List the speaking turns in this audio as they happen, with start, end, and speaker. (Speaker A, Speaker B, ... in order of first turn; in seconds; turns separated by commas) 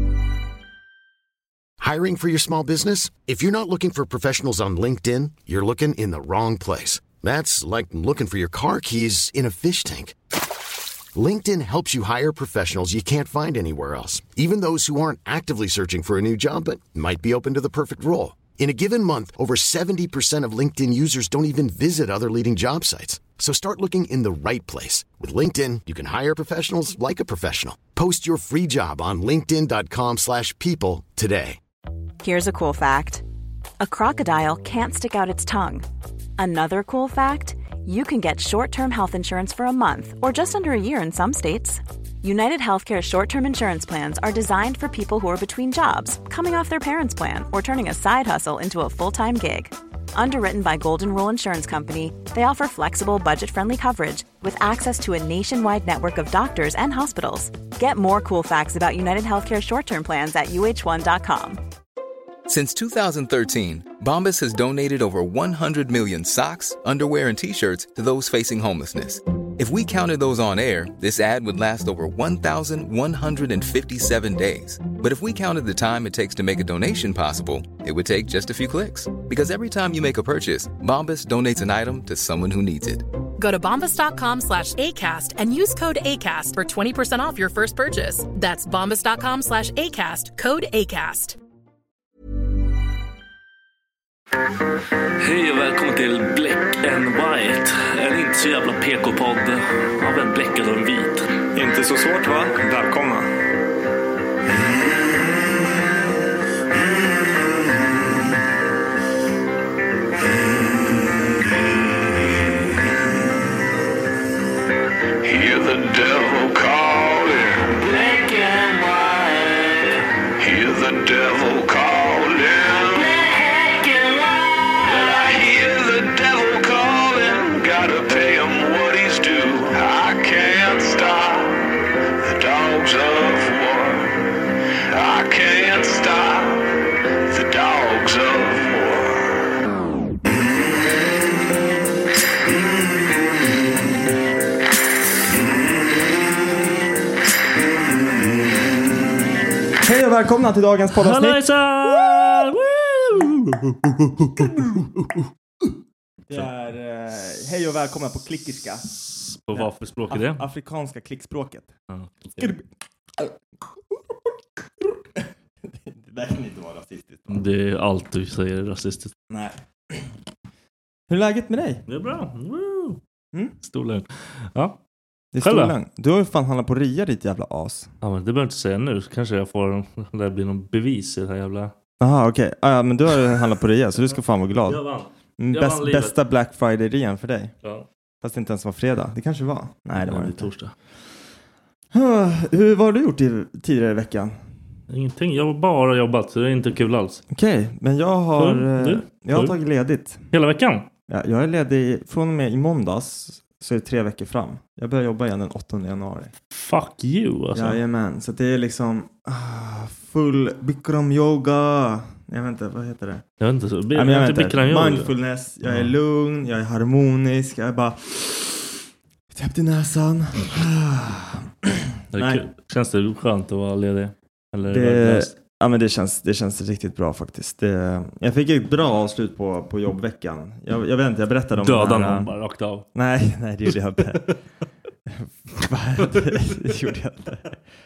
Speaker A: 1.8-10.2, Speaker A: 11.1-31.6, Speaker B: 32.2-33.2, Speaker B: 33.8-35.9, Speaker B: 36.4-61.6, Speaker C: 62.5-83.0, Speaker D: 83.4-91.4, Speaker E: 95.2-101.3, Speaker F: 101.5-103.3, Speaker G: 115.2-119.8, Speaker G: 120.4-134.2, Speaker G: 134.9-139.4, Speaker F: 149.8-151.5, Speaker E: 150.9-154.6, Speaker F: 154.3-155.1, Speaker F: 156.3-158.9, Speaker E: 158.9-160.4, Speaker F: 159.5-161.7, Speaker E: 161.9-162.6, Speaker F: 162.4-162.6, Speaker F: 163.2-167.4, Speaker E: 167.3-169.1, Speaker F: 169.3-170.1, Speaker F: 171.1-171.8, Speaker E: 171.9-173.0, Speaker E: 173.6-174.8, Speaker F: 175.3-177.9, Speaker E: 175.4-175.8, Speaker E: 178.0-181.7, Speaker F: 182.0-184.8, Speaker E: 184.6-186.2, Speaker F: 185.4-187.5, Speaker F: 188.2-190.5, Speaker E: 190.0-190.7, Speaker F: 191.9-194.4, Speaker E: 194.9-197.2, Speaker F: 197.3-200.2, Speaker E: 198.3-199.5, Speaker E: 200.3-200.9, Speaker F: 201.1-206.3, Speaker E: 206.5-207.8, Speaker F: 207.5-213.2, Speaker E: 213.4-215.1, Speaker F: 213.9-218.8, Speaker E: 215.6-215.9, Speaker F: 219.3-222.4, Speaker E: 222.1-225.3, Speaker F: 224.7-232.3, Speaker E: 231.5-232.8, Speaker F: 232.9-234.3, Speaker E: 234.0-234.3, Speaker F: 235.1-237.5, Speaker E: 236.0-236.7